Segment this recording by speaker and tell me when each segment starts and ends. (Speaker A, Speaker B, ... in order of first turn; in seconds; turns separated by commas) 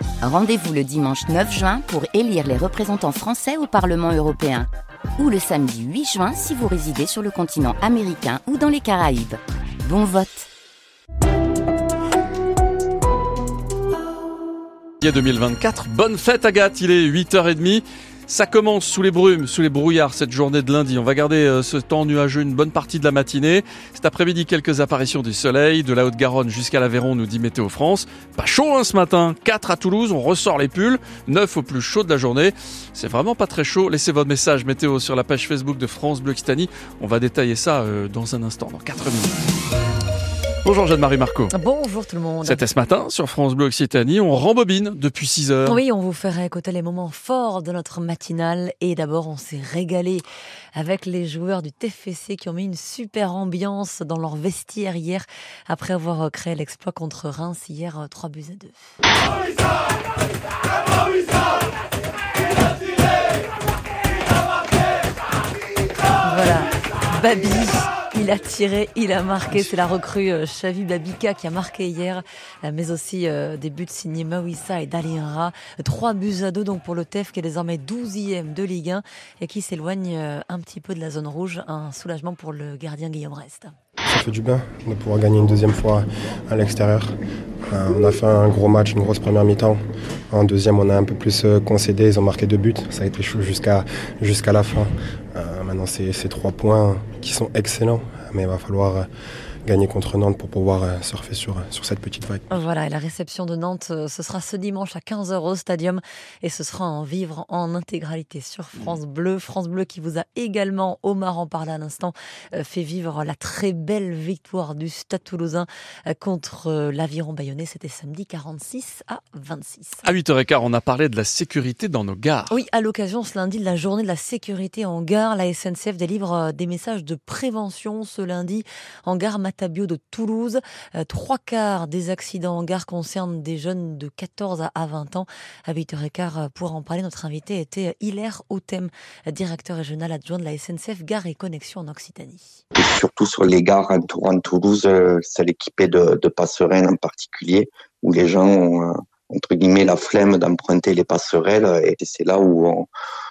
Speaker A: 0.2-10.5, Speaker B: 15.0-39.4, Speaker B: 40.6-41.5, Speaker C: 41.5-42.6, Speaker B: 42.4-45.8, Speaker C: 45.6-58.9, Speaker C: 66.2-83.7, Speaker D: 84.0-87.1, Speaker D: 87.7-89.8, Speaker D: 90.3-99.1, Speaker D: 99.6-102.5, Speaker C: 102.5-120.0, Speaker B: 120.0-122.6, Speaker C: 122.5-142.6, Speaker E: 142.8-152.9